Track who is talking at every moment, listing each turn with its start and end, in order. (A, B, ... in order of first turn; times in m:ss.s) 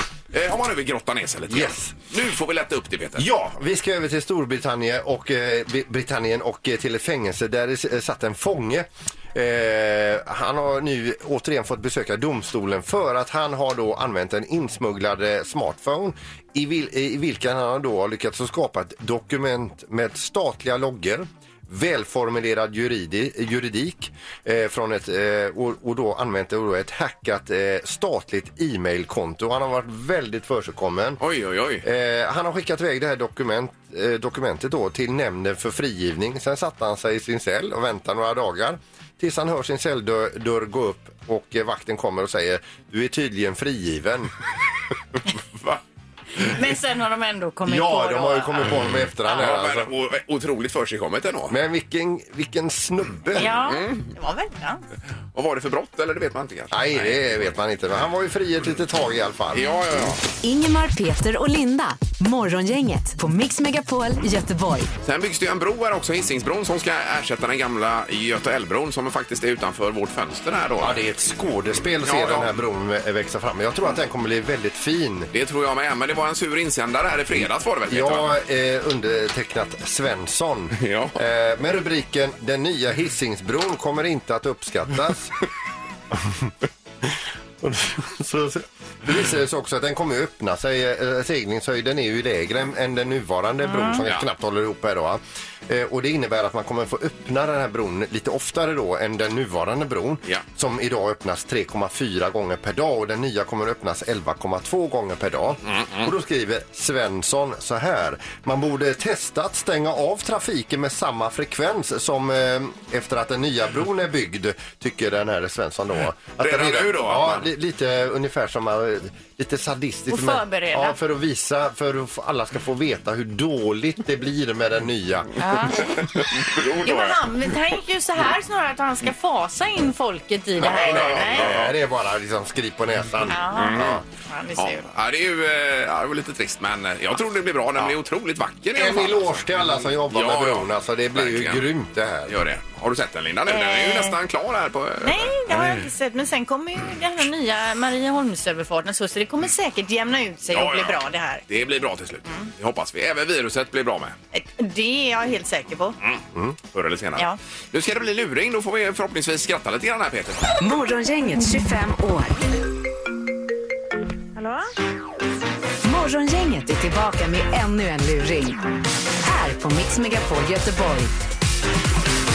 0:00.3-0:03.3 A
0:01.5-0:02.0 B
0:03.2-0:31.2 B
0:31.2-0:31.8 A
0:31.8-0:44.3 B
0:46.5-0:48.7 C
0:47.7-0:49.9 B
0:49.2-0:51.6 A
0:51.5-0:53.6 B
0:53.4-0:54.8 C
0:53.5-0:54.1 A
0:55.3-0:57.4 A
0:56.7-1:00.2 B
0:59.5-1:00.2 A
1:00.4-1:04.9 D
1:05.0-1:11.0 A
1:10.8-1:15.3 B
1:12.0-1:12.5 A
1:15.3-1:18.3 A
1:17.9-1:25.3 B
1:20.8-1:21.2 A
1:26.1-1:26.5 B
1:27.6-2:05.3 B
1:33.6-1:34.0 C
1:45.7-1:46.1 A
1:56.4-1:57.5 A
2:00.1-2:01.0 C
2:05.4-2:06.0 C
2:06.0-2:07.2 A
2:06.8-2:11.5 C
2:10.6-2:14.0 B
2:10.6-2:11.7 A
2:13.3-2:14.9 C
2:13.4-2:14.0 A
2:14.6-2:21.7 A
2:18.8-2:22.3 B
2:22.3-2:25.8 A
2:23.5-2:24.2 C
2:25.0-2:31.4 C
2:30.5-2:34.2 A
2:34.3-2:36.0 C
2:36.0-2:40.4 A
2:40.6-2:42.4 D
2:45.8-2:48.6 D
2:49.2-2:51.1 D